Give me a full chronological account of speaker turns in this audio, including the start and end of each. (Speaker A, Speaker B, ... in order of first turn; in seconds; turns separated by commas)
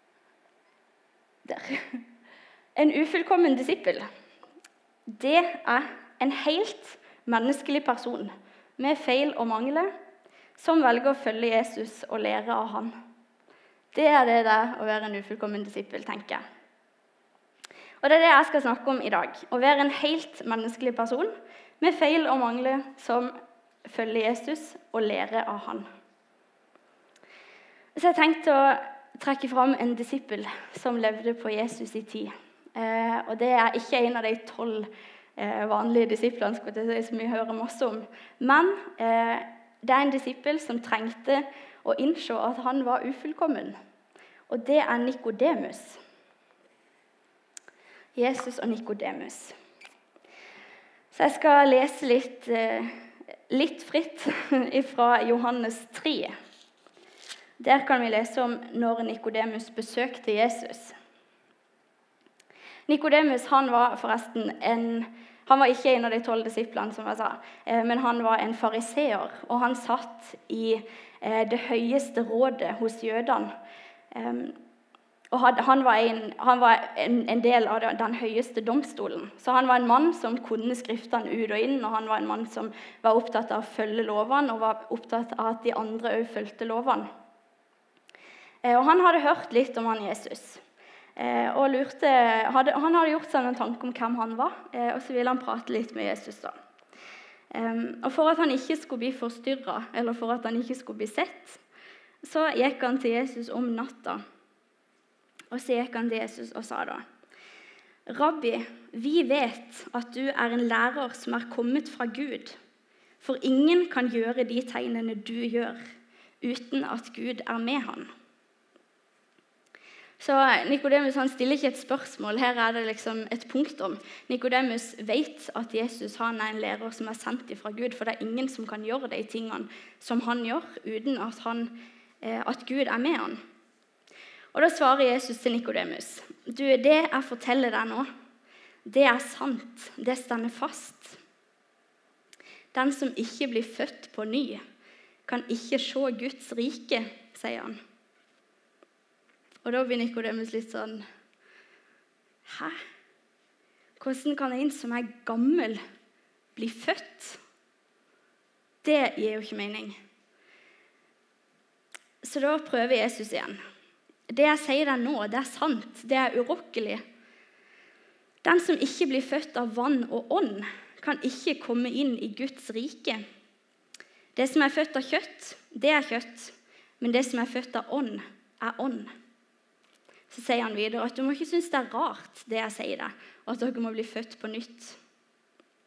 Speaker A: 1.4-2.0, Speaker A: 2.8-4.1, Speaker A: 5.1-9.9, Speaker A: 10.6-12.9, Speaker A: 13.9-16.4, Speaker A: 18.0-23.3, Speaker A: 23.9-25.9, Speaker A: 27.9-43.8, Speaker A: 44.5-46.0, Speaker A: 48.2-49.6, Speaker A: 51.1-52.9, Speaker A: 53.5-56.4, Speaker A: 57.6-61.0, Speaker A: 62.9-73.5, Speaker A: 74.1-74.6, Speaker A: 75.3-87.1, Speaker A: 88.6-90.6, Speaker A: 91.2-96.5, Speaker A: 97.5-101.6, Speaker A: 102.2-104.2, Speaker A: 105.5-107.0, Speaker A: 108.1-112.6, Speaker A: 113.2-115.8, Speaker A: 116.4-118.1, Speaker A: 120.2-133.4, Speaker A: 134.5-138.1, Speaker A: 138.9-141.2, Speaker A: 142.7-144.6, Speaker A: 145.3-147.8, Speaker A: 149.7-151.1, Speaker A: 152.4-152.8, Speaker A: 154.0-155.8, Speaker A: 156.6-157.4, Speaker A: 158.8-160.0, Speaker A: 162.2-163.6, Speaker A: 164.3-167.0, Speaker A: 168.4-173.2, Speaker A: 174.4-179.1, Speaker A: 180.3-185.0